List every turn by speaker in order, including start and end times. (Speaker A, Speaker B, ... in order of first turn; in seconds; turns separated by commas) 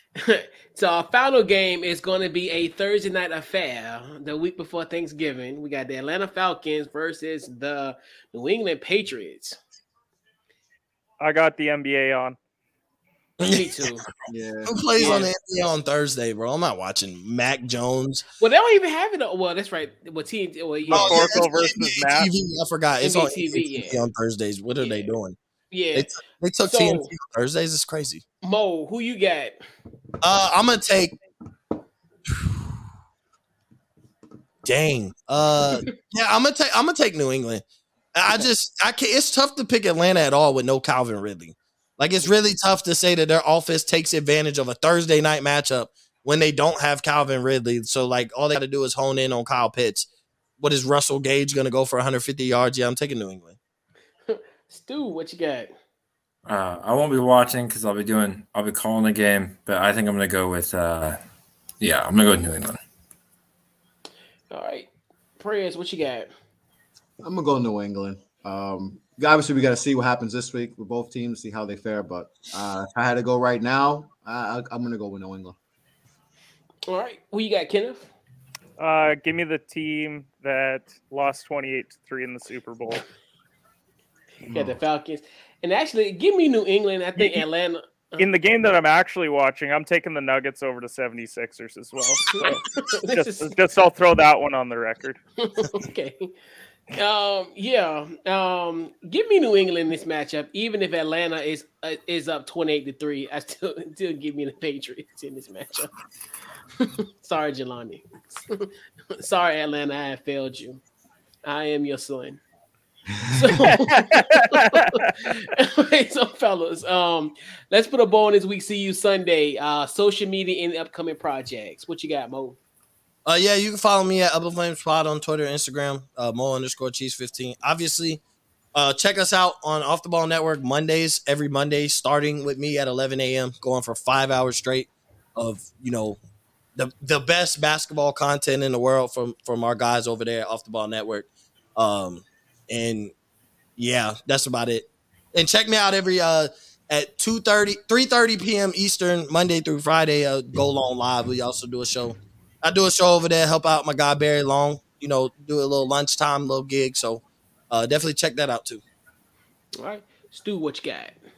Speaker A: 0.1-9.6, Speaker B: 11.2-12.4, Speaker C: 13.4-14.1, Speaker A: 13.5-14.1, Speaker D: 14.3-15.3, Speaker C: 14.7-18.2, Speaker A: 15.0-15.3, Speaker A: 18.4-21.5, Speaker C: 20.9-25.4, Speaker B: 20.9-22.3, Speaker A: 23.0-24.1, Speaker A: 24.8-25.1, Speaker A: 25.7-26.1, Speaker C: 25.9-28.2, Speaker A: 26.6-27.1, Speaker A: 28.4-29.6, Speaker C: 30.2-31.1, Speaker C: 34.6-37.6, Speaker C: 38.1-50.1, Speaker C: 50.6-53.6, Speaker A: 54.3-55.7, Speaker E: 56.5-61.2, Speaker E: 61.8-62.8, Speaker A: 64.5-66.3, Speaker D: 67.2-75.5, Speaker A: 76.9-78.1, Speaker B: 78.8-83.0, Speaker A: 84.5-88.3, Speaker D: 84.5-84.8, Speaker B: 88.2-95.2, Speaker A: 92.3-93.5, Speaker A: 95.4-96.3, Speaker A: 96.9-105.9, Speaker A: 106.8-110.8, Speaker A: 111.4-112.4, Speaker A: 113.3-122.6, Speaker B: 113.6-115.1, Speaker C: 123.2-128.2, Speaker C: 128.7-136.2, Speaker C: 136.8-143.1, Speaker C: 143.8-158.8, Speaker A: 159.8-161.2